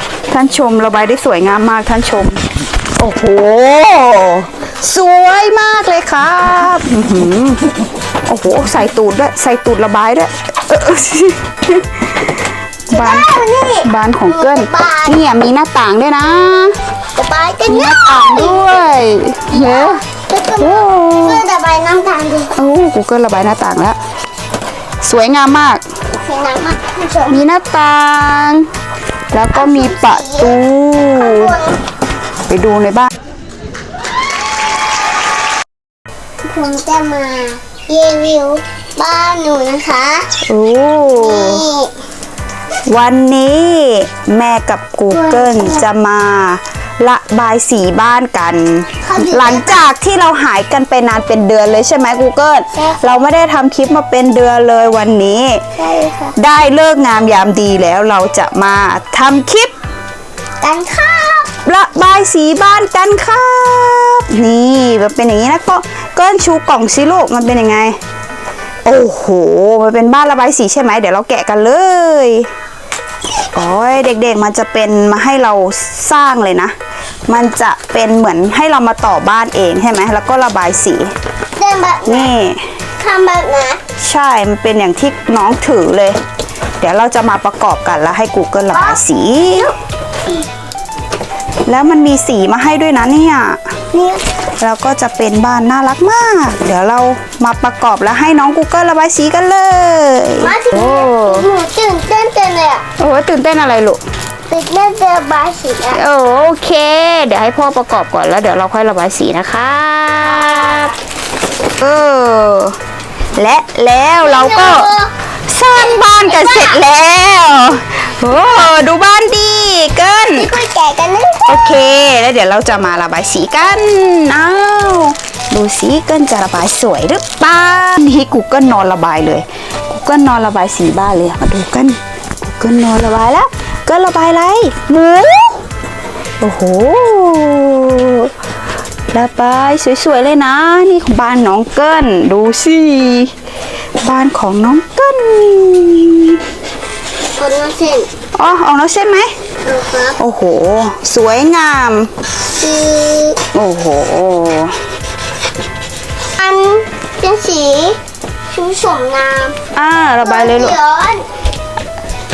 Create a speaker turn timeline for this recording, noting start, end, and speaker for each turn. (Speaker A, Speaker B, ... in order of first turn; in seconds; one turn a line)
Speaker A: 0.3-2.4
Speaker A: 3.0-7.6
Speaker A: 8.3-12.3
Speaker A: 12.9-13.3
Speaker B: 12.9-15.2
Speaker A: 13.8-16.7
Speaker B: 17.1-22.5
Speaker A: 17.6-20.0
Speaker A: 20.6-21.4
Speaker A: 22.6-24.0
Speaker A: 25.0-25.8
Speaker B: 26.2-27.4
Speaker A: 27.3-28.7
Speaker A: 29.3-31.6
Speaker B: 29.5-30.5
Speaker B: 31.1-31.8
Speaker A: 32.5-33.1
Speaker B: 36.4-40.3
Speaker A: 40.4-41.6
Speaker B: 41.1-41.9
Speaker A: 42.9-55.6
Speaker B: 45.1-45.9
Speaker B: 49.0-49.9
Speaker B: 52.7-53.2
Speaker B: 55.8-56.3
Speaker A: 56.4-59.7
Speaker B: 60.6-61.5
Speaker A: 61.6-68.0
Speaker A: 68.8-72.5
Speaker A: 73.5-76.7
Speaker A: 77.3-81.1
Speaker B: 81.5-82.3
Speaker A: 82.0-82.6
Speaker B: 83.0-83.8
Speaker A: 84.0-86.2
Speaker A: 86.8-89.7
Speaker B: 88.7-89.7
Speaker A: 91.7-93.6
Speaker B: 93.9-94.3
Speaker A: 94.6-101.5
Speaker B: 100.4-102.8
Speaker A: 103.0-104.0
Speaker B: 104.5-106.0
Speaker A: 105.9-110.9
Speaker B: 110.5-110.9
Speaker A: 111.8-112.8
Speaker A: 113.3-114.9
Speaker B: 114.2-115.1
Speaker A: 115.5-120.5
Speaker B: 115.7-116.8
Speaker B: 120.2-121.8
Speaker A: 121.5-135.6
Speaker A: 136.4-138.3
Speaker A: 139.1-143.3
Speaker A: 144.0-146.4
Speaker B: 147.4-148.1
Speaker A: 148.3-149.3
Speaker B: 149.6-150.2
Speaker A: 150.2-152.1
Speaker B: 152.6-153.4
Speaker A: 153.5-154.8
Speaker B: 156.4-158.0
Speaker B: 158.5-159.6
Speaker A: 159.7-160.8
Speaker B: 160.2-161.2